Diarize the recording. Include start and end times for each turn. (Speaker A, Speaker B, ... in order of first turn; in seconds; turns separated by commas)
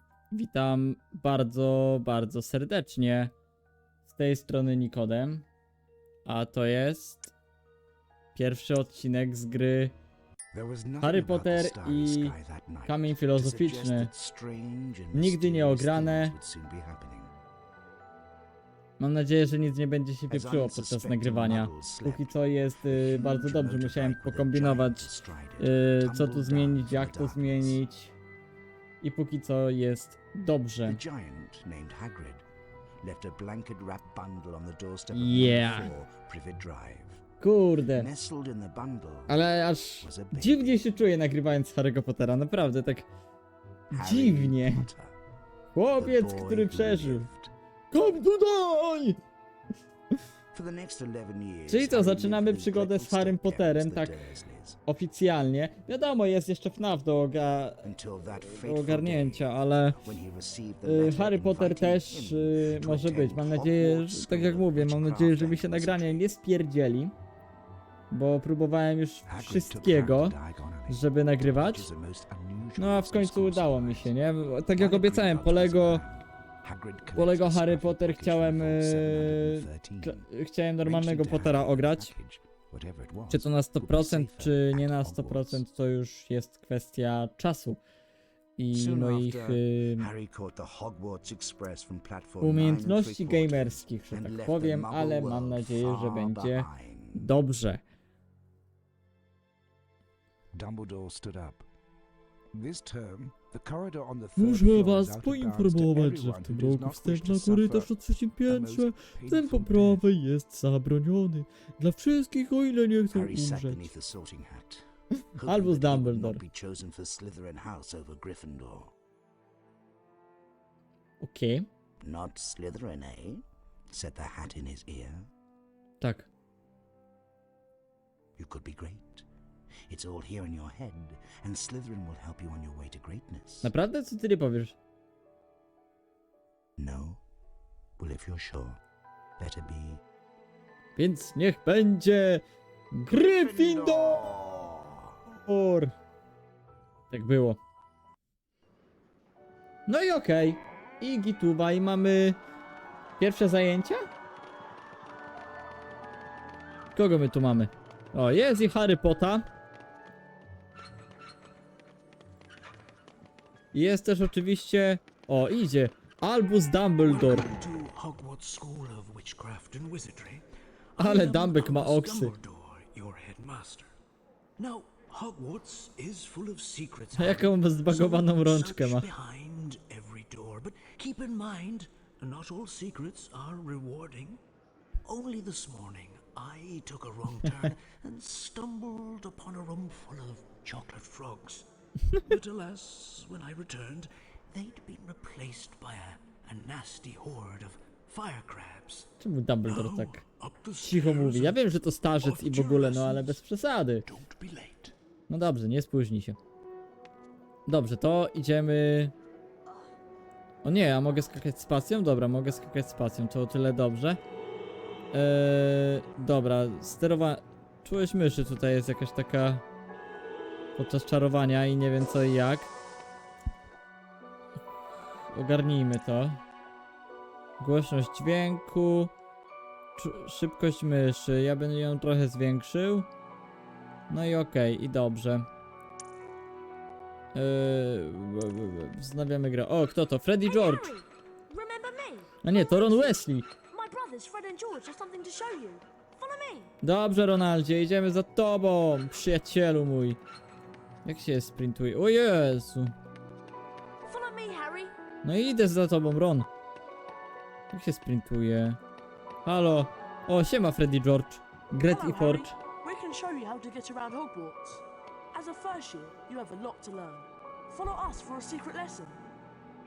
Speaker A: 0.3-3.3, Speaker A: 4.1-5.4, Speaker A: 6.2-7.3, Speaker A: 8.3-9.9, Speaker B: 10.5-17.3, Speaker A: 11.0-14.1, Speaker A: 15.1-16.3, Speaker A: 19.0-28.1, Speaker B: 20.3-27.8, Speaker A: 29.0-31.0, Speaker B: 30.8-32.4, Speaker B: 33.0-37.2, Speaker A: 35.1-35.9, Speaker A: 37.4-38.1, Speaker B: 37.9-40.9, Speaker A: 39.3-43.1, Speaker A: 43.9-44.9, Speaker B: 43.9-45.1, Speaker A: 45.7-47.2, Speaker B: 45.9-47.5, Speaker A: 47.9-49.2, Speaker B: 50.5-54.8, Speaker A: 51.7-54.1, Speaker A: 54.9-57.8, Speaker B: 57.8-66.3, Speaker A: 58.4-60.0, Speaker A: 60.8-67.1, Speaker A: 68.1-70.3, Speaker B: 69.2-74.1, Speaker A: 70.9-71.9, Speaker A: 72.8-76.0, Speaker B: 74.7-80.3, Speaker A: 77.1-82.1, Speaker B: 80.8-85.6, Speaker A: 83.3-87.8, Speaker A: 88.6-90.1, Speaker B: 88.7-97.3, Speaker A: 92.4-97.8, Speaker B: 100.5-101.7, Speaker B: 102.5-107.9, Speaker A: 104.3-113.8, Speaker B: 108.5-110.0, Speaker B: 113.1-118.9, Speaker A: 115.4-116.4, Speaker A: 121.2-121.7, Speaker B: 122.0-125.3, Speaker A: 126.0-126.3, Speaker B: 128.4-129.3, Speaker B: 129.9-133.7, Speaker A: 133.6-134.7, Speaker B: 136.8-137.2, Speaker B: 138.0-138.8, Speaker B: 139.4-140.0, Speaker A: 140.9-144.2, Speaker B: 143.1-145.1, Speaker A: 145.4-145.9, Speaker A: 147.1-147.6, Speaker A: 149.9-152.4, Speaker A: 153.2-154.1, Speaker A: 156.9-159.4, Speaker A: 163.7-167.5, Speaker C: 167.0-173.9, Speaker A: 171.0-172.3, Speaker C: 174.6-184.4, Speaker A: 177.1-179.1, Speaker C: 185.0-199.1, Speaker A: 199.2-200.2, Speaker C: 199.6-203.4, Speaker A: 200.8-204.0, Speaker C: 204.1-204.9, Speaker A: 205.3-206.4, Speaker A: 207.7-209.1, Speaker A: 210.6-214.2, Speaker A: 215.1-219.6, Speaker A: 220.8-222.7, Speaker A: 225.1-226.4, Speaker A: 227.6-229.1, Speaker A: 230.0-233.1, Speaker A: 234.1-235.5, Speaker A: 237.3-240.9, Speaker D: 240.4-246.7, Speaker A: 242.4-243.5, Speaker A: 246.8-250.2, Speaker A: 251.0-252.9, Speaker D: 254.0-254.9, Speaker A: 255.2-256.5, Speaker A: 257.7-258.8, Speaker A: 259.4-262.5, Speaker D: 261.9-269.2